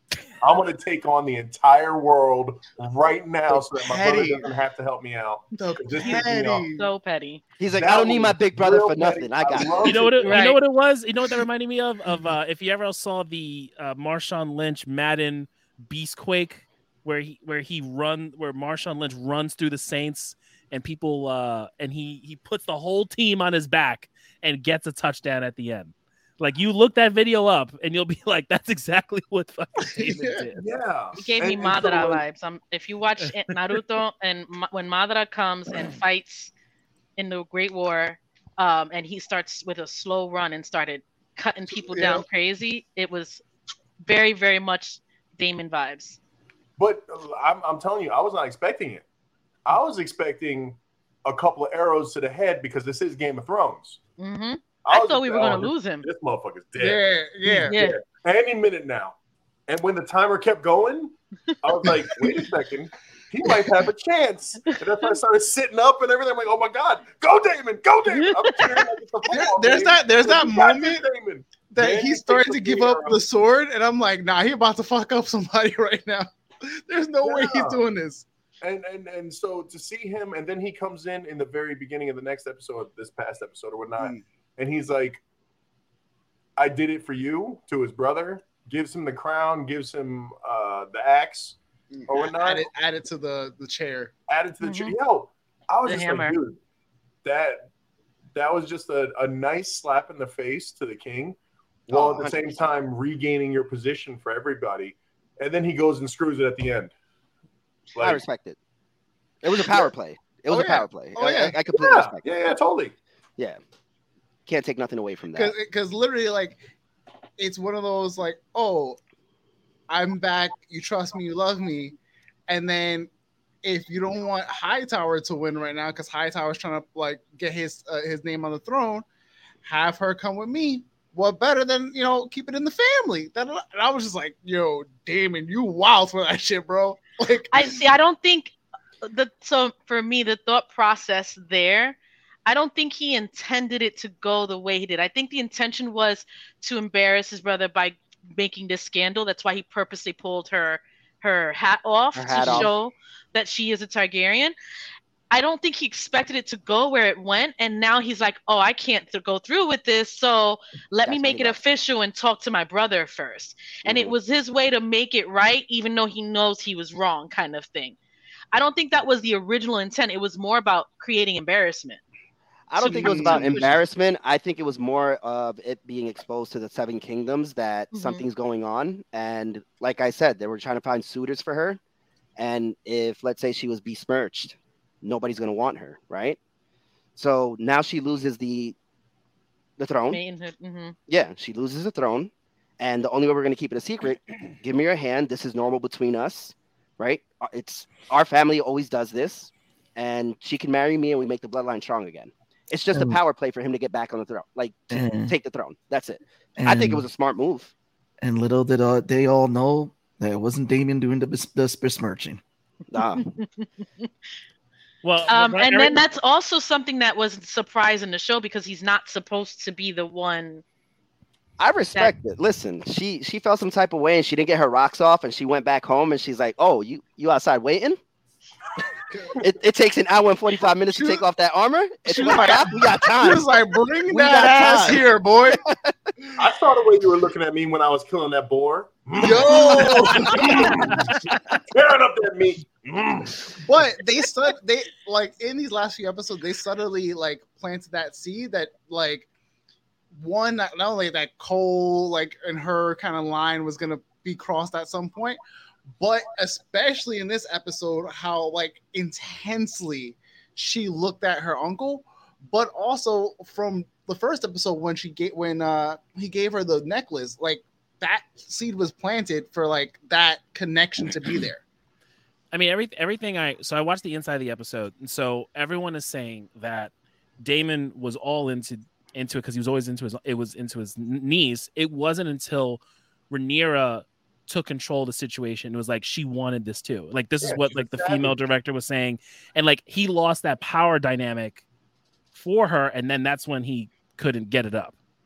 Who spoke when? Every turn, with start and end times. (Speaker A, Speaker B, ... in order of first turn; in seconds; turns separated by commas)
Speaker A: 0.4-6.7, Speaker B: 3.5-4.5, Speaker B: 5.5-6.9, Speaker C: 6.8-7.4, Speaker D: 7.6-10.3, Speaker A: 7.7-10.4, Speaker E: 9.8-30.6, Speaker C: 10.2-10.6, Speaker B: 30.0-30.3, Speaker A: 30.6-32.2, Speaker C: 31.2-36.5, Speaker C: 37.2-43.4, Speaker B: 41.9-42.2, Speaker C: 44.0-46.2, Speaker A: 46.8-49.0, Speaker A: 49.6-54.0, Speaker C: 54.2-56.1, Speaker A: 54.8-59.1, Speaker B: 56.8-57.7, Speaker C: 57.6-58.0, Speaker A: 59.7-73.2, Speaker B: 61.8-62.5, Speaker B: 63.5-63.7, Speaker C: 68.1-68.9, Speaker B: 69.3-71.0, Speaker B: 71.7-78.2, Speaker A: 77.2-77.8, Speaker A: 78.6-85.2, Speaker A: 86.6-92.7, Speaker B: 91.9-94.1, Speaker A: 94.3-96.6, Speaker C: 94.6-95.0, Speaker C: 95.8-96.4, Speaker A: 97.2-97.7, Speaker A: 98.3-101.4, Speaker A: 101.9-106.9, Speaker B: 101.9-102.6, Speaker A: 107.9-108.2, Speaker D: 108.0-108.6, Speaker D: 109.4-112.2, Speaker B: 110.5-111.6, Speaker A: 111.7-112.9, Speaker D: 114.5-115.5, Speaker B: 115.3-116.6, Speaker B: 117.4-119.0, Speaker B: 119.9-122.0, Speaker B: 122.5-123.1, Speaker B: 123.6-129.0, Speaker B: 129.6-137.8, Speaker C: 137.5-154.5, Speaker D: 152.1-152.7, Speaker C: 155.3-167.9, Speaker D: 161.0-161.6, Speaker D: 163.8-164.1, Speaker C: 168.5-172.0, Speaker D: 172.7-181.8, Speaker C: 172.8-173.6, Speaker B: 172.9-173.8, Speaker C: 177.9-178.2, Speaker D: 182.4-186.4, Speaker D: 187.2-188.7, Speaker D: 189.8-190.2, Speaker C: 190.1-190.9, Speaker D: 191.1-207.7, Speaker F: 204.9-205.3, Speaker F: 206.6-207.1, Speaker F: 208.2-212.4, Speaker D: 212.9-213.3, Speaker C: 213.2-213.4, Speaker E: 215.0-216.0, Speaker C: 215.3-220.6, Speaker D: 221.6-228.0, Speaker B: 229.1-229.4, Speaker D: 229.4-233.5, Speaker B: 230.9-231.2, Speaker B: 232.1-235.6, Speaker D: 234.1-235.0, Speaker A: 236.4-241.2, Speaker B: 239.2-241.3, Speaker A: 241.7-243.6, Speaker B: 243.6-249.3, Speaker B: 250.1-255.4, Speaker B: 256.0-271.6, Speaker E: 272.5-291.6, Speaker A: 287.4-288.4, Speaker E: 292.3-294.9